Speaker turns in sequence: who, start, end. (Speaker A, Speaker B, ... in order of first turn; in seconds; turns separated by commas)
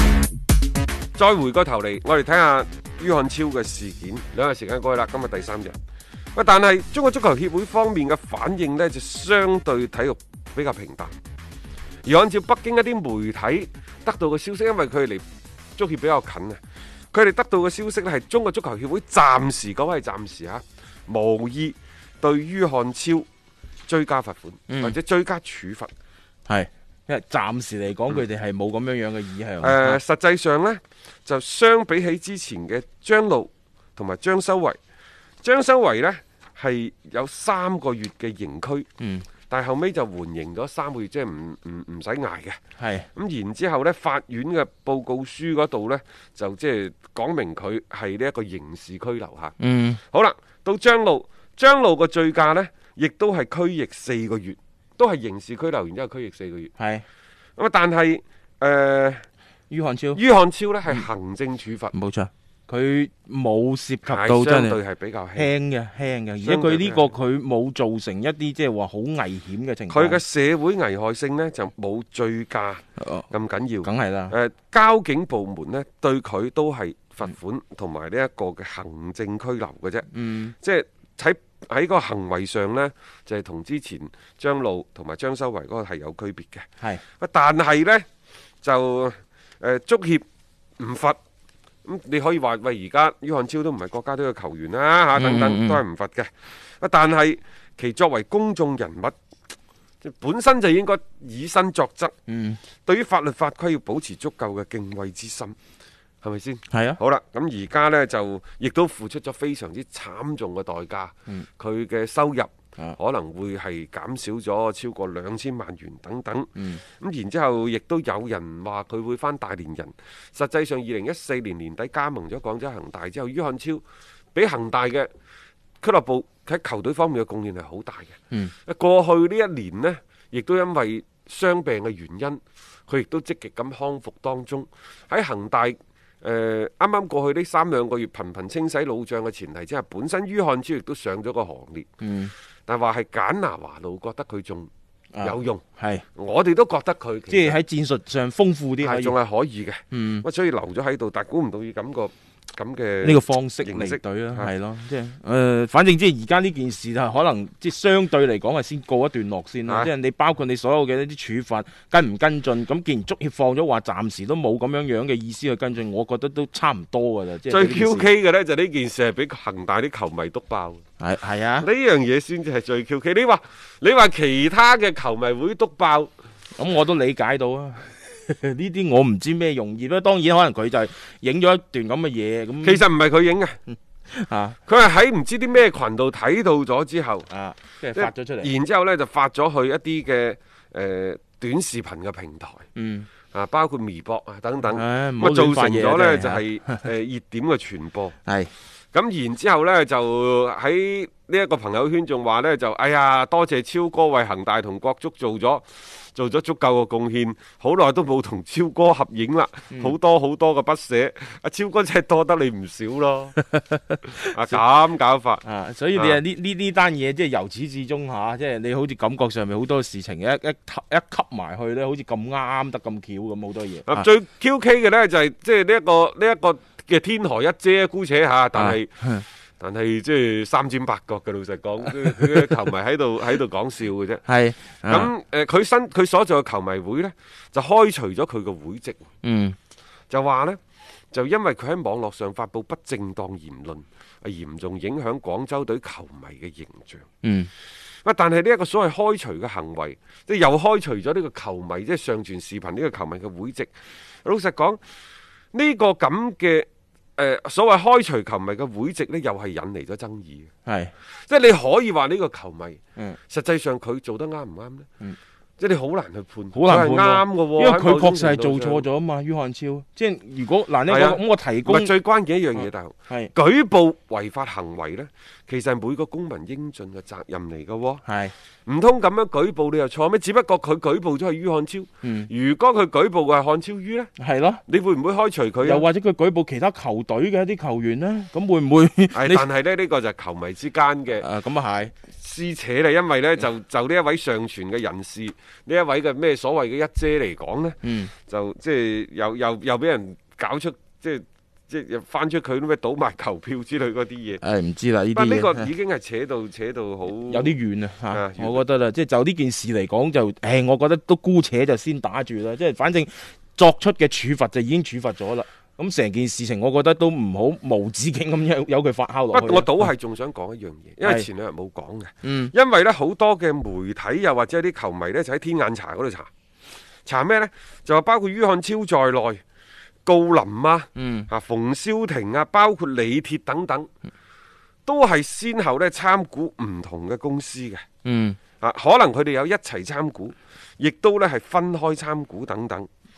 Speaker A: 1.1-5.7, Speaker A: 6.3-11.1, Speaker A: 12.0-15.2, Speaker A: 15.8-16.6, Speaker A: 17.1-23.2, Speaker A: 23.9-25.9, Speaker B: 24.7-24.9, Speaker B: 26.4-30.0, Speaker A: 29.6-34.8, Speaker A: 35.4-38.9, Speaker B: 39.0-39.3, Speaker A: 39.5-42.6, Speaker B: 42.8-43.1, Speaker A: 43.1-56.7, Speaker B: 49.6-50.0, Speaker B: 56.8-57.0, Speaker A: 57.6-59.2, Speaker B: 59.7-60.2, Speaker A: 60.1-61.9, Speaker B: 61.9-64.8, Speaker A: 64.0-65.5, Speaker B: 65.3-70.2, Speaker A: 66.4-67.1, Speaker A: 69.9-86.7, Speaker B: 73.0-73.3, Speaker B: 73.8-74.3, Speaker B: 80.1-80.5, Speaker A: 87.2-88.0, Speaker A: 88.6-90.2, Speaker A: 90.8-91.2, Speaker A: 91.8-99.1, Speaker B: 95.2-95.8, Speaker A: 100.0-102.1, Speaker B: 102.3-102.6, Speaker A: 102.8-105.5, Speaker A: 106.2-123.8, Speaker B: 106.7-107.0, Speaker B: 116.5-116.8, Speaker A: 124.3-125.1, Speaker A: 125.8-141.9, Speaker B: 142.0-142.3, Speaker A: 142.7-144.7, Speaker B: 145.1-146.0, Speaker A: 145.2-145.6, Speaker A: 146.2-147.6, Speaker B: 147.3-149.1, Speaker A: 148.8-154.5, Speaker B: 149.9-150.2, Speaker B: 153.0-168.1, Speaker A: 159.7-159.9, Speaker A: 167.5-170.8, Speaker B: 171.0-171.7, Speaker A: 171.6-176.1, Speaker B: 176.5-182.8, Speaker A: 182.6-183.6, Speaker B: 184.1-184.6, Speaker A: 184.7-187.3, Speaker B: 187.3-188.5, Speaker A: 187.9-192.6, Speaker B: 192.7-193.1, Speaker A: 193.3-198.1, Speaker B: 194.7-196.8, Speaker B: 198.2-198.5, Speaker A: 198.9-213.4, Speaker A: 214.3-215.4, Speaker B: 215.4-224.1, Speaker A: 215.9-216.2, Speaker A: 223.9-228.9, Speaker B: 228.5-229.2, Speaker A: 229.6-234.2, Speaker B: 234.2-235.1, Speaker A: 234.9-239.0, Speaker B: 239.2-239.6, Speaker A: 240.1-240.6, Speaker A: 241.1-247.1, Speaker B: 247.2-247.5, Speaker A: 248.0-253.7, Speaker A: 254.2-254.8, Speaker A: 255.5-260.5, Speaker B: 260.6-260.9, Speaker A: 261.3-264.9, Speaker A: 265.6-268.9, Speaker B: 266.5-271.9, Speaker A: 270.9-278.0, Speaker B: 272.6-273.3, Speaker B: 278.0-278.3, Speaker A: 278.7-284.1, Speaker B: 282.0-282.3, Speaker B: 284.2-284.6, Speaker A: 284.7-285.9, Speaker B: 285.6-289.4, Speaker A: 289.1-291.3, Speaker B: 291.2-291.9, Speaker A: 292.1-304.4, Speaker B: 297.8-298.1, Speaker B: 304.4-305.7, Speaker A: 305.1-308.6, Speaker B: 307.2-319.9, Speaker A: 319.3-326.3, Speaker B: 322.2-322.5, Speaker A: 327.1-329.4, Speaker A: 330.0-333.9, Speaker B: 330.9-331.3, Speaker A: 334.9-337.8, Speaker B: 338.0-338.4, Speaker A: 338.6-342.9